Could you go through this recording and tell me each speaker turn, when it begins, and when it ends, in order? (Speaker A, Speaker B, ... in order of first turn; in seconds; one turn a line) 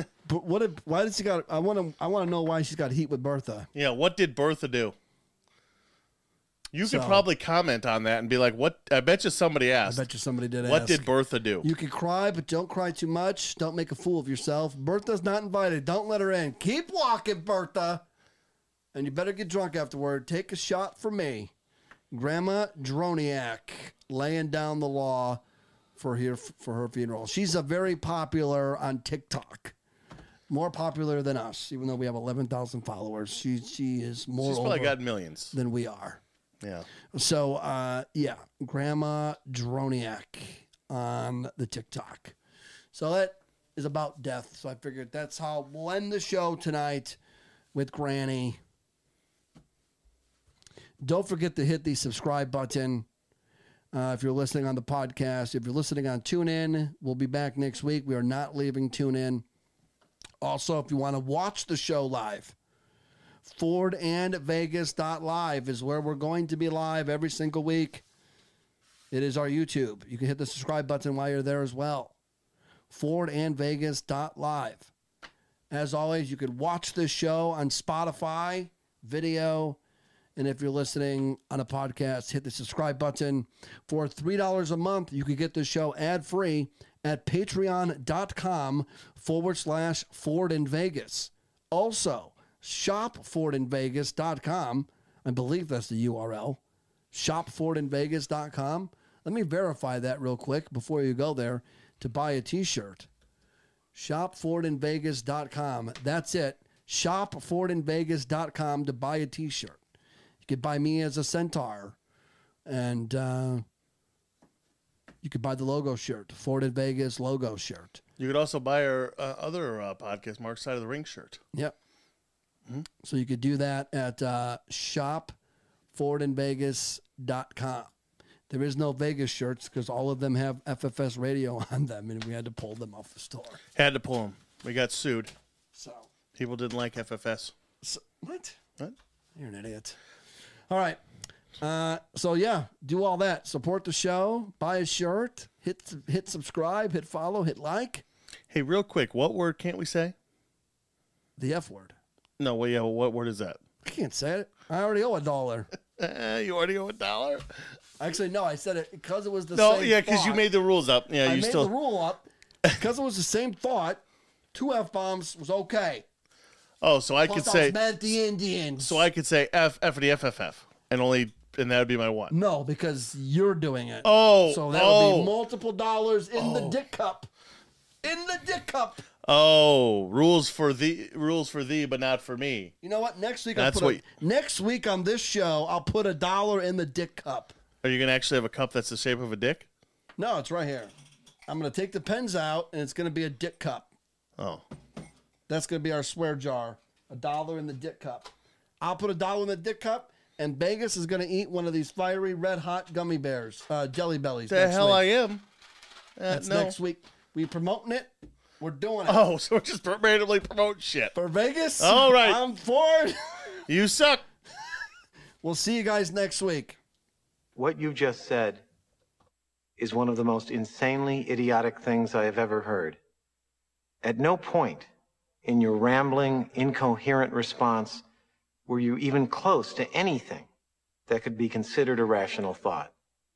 Speaker A: 0.2-3.7
Speaker B: 3.8-5.0
Speaker B: 6.7-10.1
Speaker A: 6.8-7.3
Speaker A: 9.8-11.1
Speaker B: 10.6-11.7
Speaker A: 11.6-18.0
Speaker A: 18.9-21.5
Speaker A: 22.1-25.4
Speaker A: 26.0-29.8
Speaker A: 30.5-35.0
Speaker B: 34.4-35.5
Speaker A: 35.5-36.2
Speaker B: 36.6-36.9
Speaker A: 37.1-42.4
Speaker A: 42.9-47.2
Speaker A: 47.8-48.6
Speaker A: 51.0-53.1
Speaker A: 53.9-59.5
Speaker A: 60.4-62.5
Speaker A: 63.5-68.0
Speaker A: 69.1-72.2
Speaker A: 72.9-74.9
Speaker A: 75.7-79.8
Speaker A: 80.4-96.6
Speaker A: 97.1-103.1
Speaker A: 103.9-109.8
Speaker A: 110.4-112.0
Speaker A: 112.7-113.7
Speaker A: 115.2-118.0
Speaker B: 118.2-121.4
Speaker A: 123.0-125.3
Speaker A: 125.9-127.9
Speaker A: 128.5-133.6
Speaker B: 133.8-135.3
Speaker A: 135.7-136.1
Speaker B: 136.3-137.5
Speaker A: 137.8-138.6
Speaker A: 139.4-140.0
Speaker A: 140.7-141.0
Speaker A: 141.6-148.0
Speaker B: 148.5-150.1
Speaker A: 151.4-151.9
Speaker B: 152.4-153.6
Speaker A: 153.8-155.7
Speaker B: 156.0-157.5
Speaker A: 158.0-160.4
Speaker B: 159.5-161.7
Speaker A: 161.2-164.0
Speaker A: 164.5-166.1
Speaker B: 166.8-168.1
Speaker A: 167.3-169.0
Speaker B: 168.8-172.3
Speaker A: 172.3-177.3
Speaker B: 174.0-175.3
Speaker B: 176.4-176.8
Speaker A: 178.0-179.0
Speaker B: 179.2-182.7
Speaker A: 182.8-187.5
Speaker B: 183.6-184.0
Speaker B: 187.8-189.7
Speaker A: 190.2-190.9
Speaker A: 191.5-193.9
Speaker B: 194.4-194.6
Speaker A: 195.5-205.0
Speaker B: 204.5-205.4
Speaker B: 206.2-206.8
Speaker A: 206.3-209.2
Speaker B: 209.1-211.1
Speaker A: 211.1-213.6
Speaker B: 211.8-212.4
Speaker B: 213.7-214.2
Speaker A: 215.4-216.8
Speaker C: 217.6-218.6
Speaker C: 219.8-223.0
Speaker C: 224.0-224.9
Speaker C: 225.4-228.0
Speaker C: 228.7-230.5
Speaker C: 231.1-232.9